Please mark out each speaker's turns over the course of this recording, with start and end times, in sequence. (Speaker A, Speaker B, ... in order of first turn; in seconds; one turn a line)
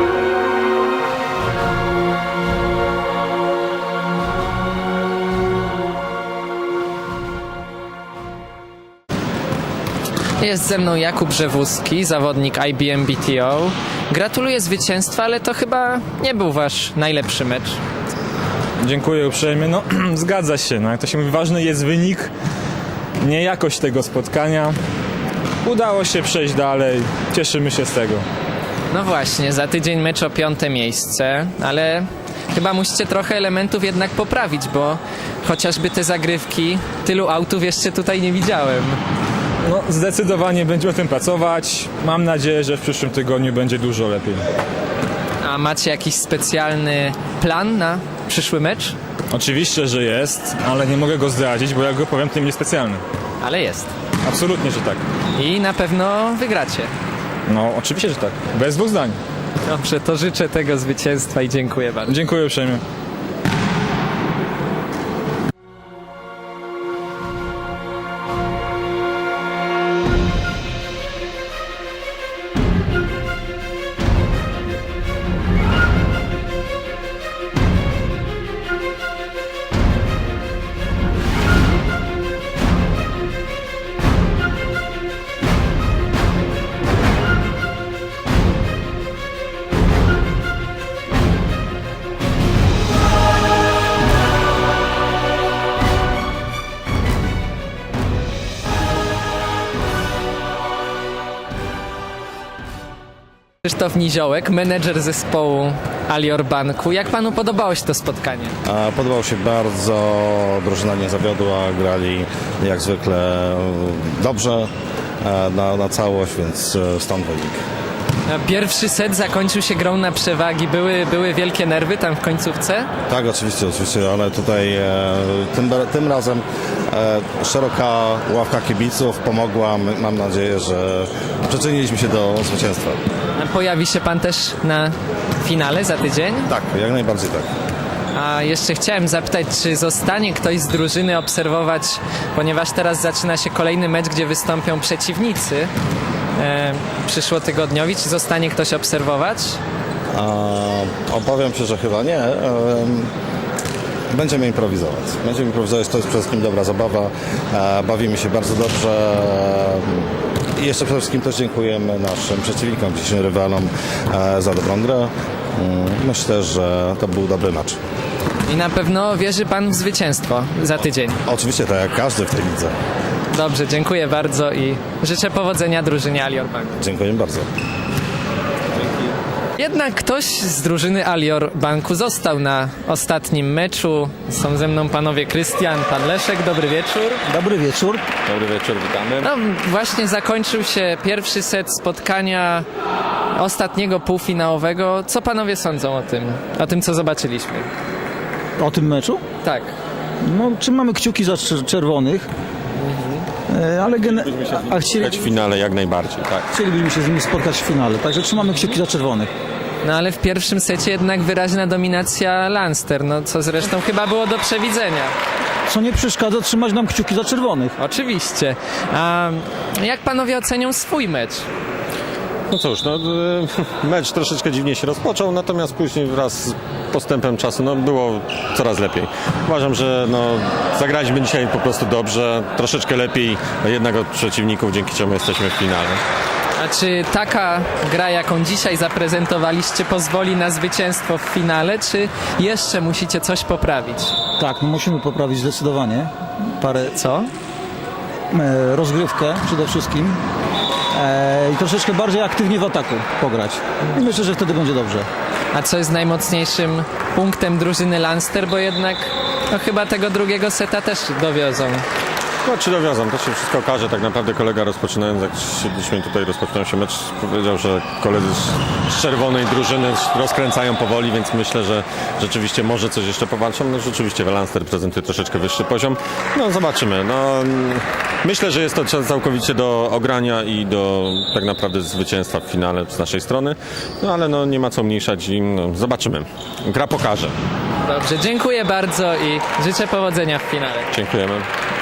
Speaker A: 10.4-17.8
Speaker B: 18.8-22.3
Speaker B: 23.2-24.8
Speaker B: 25.6-28.2
Speaker A: 28.9-39.0
Speaker B: 39.6-44.4
Speaker A: 45.4-48.9
Speaker B: 49.3-53.0
Speaker A: 53.4-53.9
Speaker B: 54.2-55.0
Speaker A: 55.4-56.9
Speaker B: 57.5-59.2
Speaker A: 59.6-62.2
Speaker B: 62.1-62.8
Speaker A: 103.6-108.5
Speaker C: 108.6-114.7
Speaker C: 115.2-117.6
Speaker A: 118.3-122.9
Speaker C: 123.1-133.0
Speaker A: 133.4-136.5
Speaker C: 136.5-137.5
Speaker A: 138.1-145.7
Speaker A: 146.4-149.6
Speaker C: 150.1-153.1
Speaker C: 154.1-167.8
Speaker A: 168.5-171.2
Speaker C: 171.2-172.7
Speaker A: 173.3-176.7
Speaker C: 176.8-177.5
Speaker A: 179.6-187.2
Speaker D: 187.3-188.1
Speaker E: 188.2-189.3
Speaker A: 189.2-192.7
Speaker A: 193.3-197.7
Speaker D: 198.6-199.2
Speaker A: 199.4-199.7
Speaker D: 200.2-202.3
Speaker A: 202.8-203.3
Speaker D: 203.5-205.3
Speaker E: 204.1-206.5
Speaker D: 206.5-209.3
Speaker A: 209.8-215.1
Speaker D: 215.7-217.7
Speaker A: 217.8-221.4
Speaker E: 222.5-236.0
Speaker A: 236.6-244.1
Speaker D: 244.4-246.9
Speaker A: 246.8-247.3
Speaker D: 248.3-250.2
Speaker D: 250.9-255.1
Speaker A: 255.5-261.8
Speaker E: 262.4-287.4
Speaker A: 287.8-290.9
Speaker E: 290.9-291.5